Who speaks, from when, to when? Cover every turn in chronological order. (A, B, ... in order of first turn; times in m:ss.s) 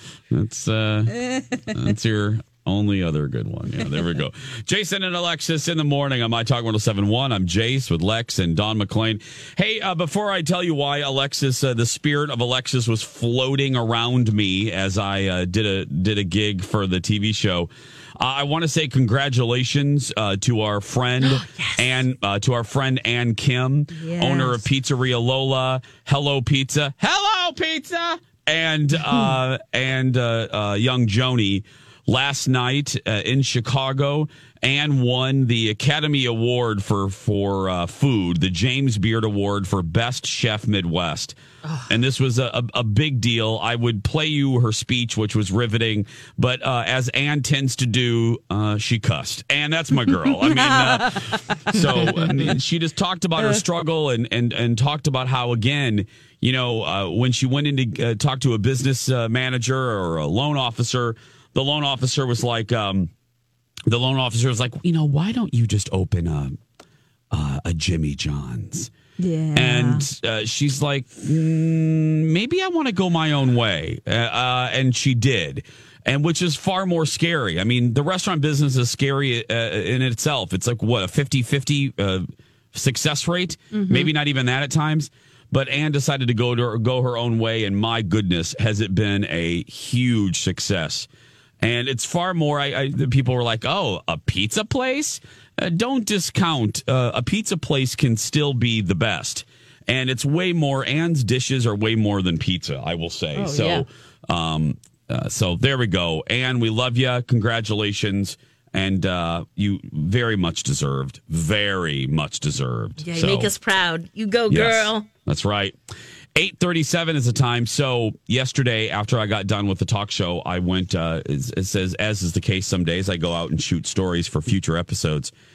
0:00.3-0:41.4 A
0:01.1-0:01.8 B
0:21.2-0:22.0 C
0:23.9-0:24.7 B
0:41.9-1:03.1 A
0:50.2-0:52.3 B
1:03.9-1:06.6 A
1:07.3-1:08.9 A
1:09.2-1:10.1 B
1:09.6-1:31.1 A
1:23.7-1:24.1 B
1:31.6-1:53.5 A
1:43.4-1:43.8 B
1:53.0-1:55.1 C
1:54.5-1:55.8 A
1:56.4-2:05.3 A